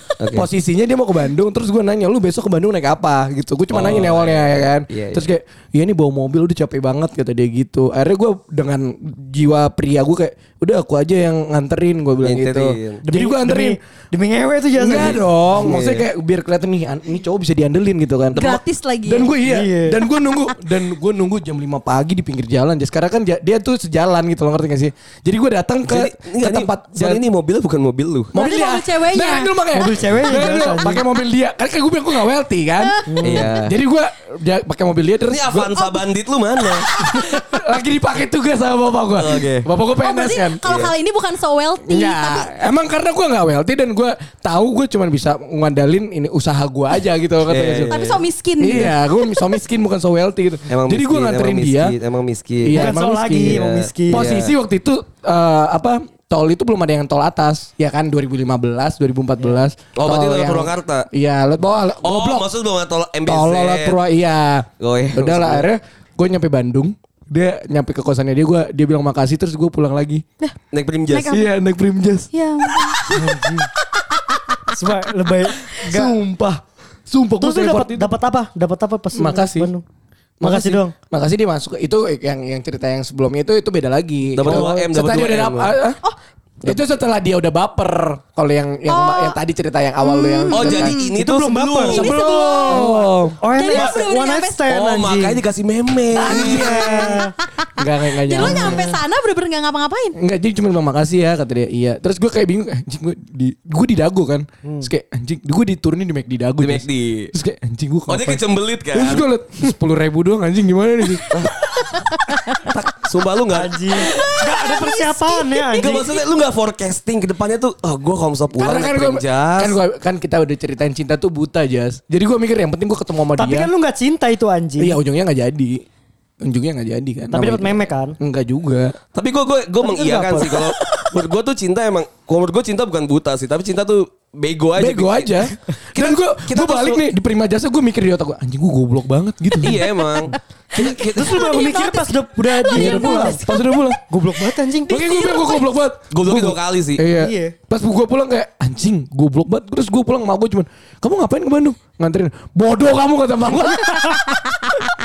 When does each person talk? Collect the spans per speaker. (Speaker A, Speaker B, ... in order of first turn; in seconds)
Speaker A: 0.2-0.5, 3.7-5.3, 12.2-13.0, 14.9-16.1, 18.3-18.6, 25.9-28.3, 33.2-33.8, 35.3-36.9, 39.1-39.7, 40.6-40.9, 47.5-48.2, 50.7-54.5, 60.0-61.1, 62.0-64.0, 64.8-65.7, 70.7-71.4, 84.3-85.8, 90.5-92.2, 94.7-97.1, 106.6-107.3, 108.1-109.2, 111.3-111.5, 112.6-113.8, 115.8-119.8, 129.1-137.1, 139.6-141.6, 146.1-147.1
Speaker B: 0.3-13.8, 14.8-18.4, 19.1-27.2, 28.3-35.9, 37.0-40.7, 41.9-48.0, 48.6-52.0, 52.6-62.5, 63.3-70.2, 71.3-73.2, 75.8-78.1, 79.2-79.7, 80.4-86.0, 86.6-91.0, 91.9-93.4, 96.1-97.2, 97.8-99.0, 100.2-108.4, 108.9-111.5, 118.5-123.7, 124.8-125.8, 126.4-128.9, 130.4-131.1, 134.8-139.8, 142.7-144.0, 144.9-154.9
Speaker C: 13.1-15.2, 19.4-20.0, 29.7-31.0, 33.1-33.5, 52.7-54.3, 73.1-73.7, 74.7-76.2, 77.4-79.8, 80.4-80.9, 91.2-92.0, 93.4-95.4, 96.3-97.3, 98.5-98.9, 104.6-104.9, 113.5-116.1, 123.4-125.0, 127.3-128.2, 129.8-130.6, 141.2-144.9, 147.2-147.6, 153.9-154.2
Speaker D: 18.4-19.4, 28.4-29.5, 32.8-33.6, 36.9-37.5, 40.0-42.5, 47.8-49.4, 71.1-71.5, 72.3-73.4, 88.9-89.4, 90.0-91.1, 91.9-93.0, 93.5-94.6, 96.3-100.2, 114.0-116.1, 139.8-140.1, 140.8-143.3, 144.9-145.7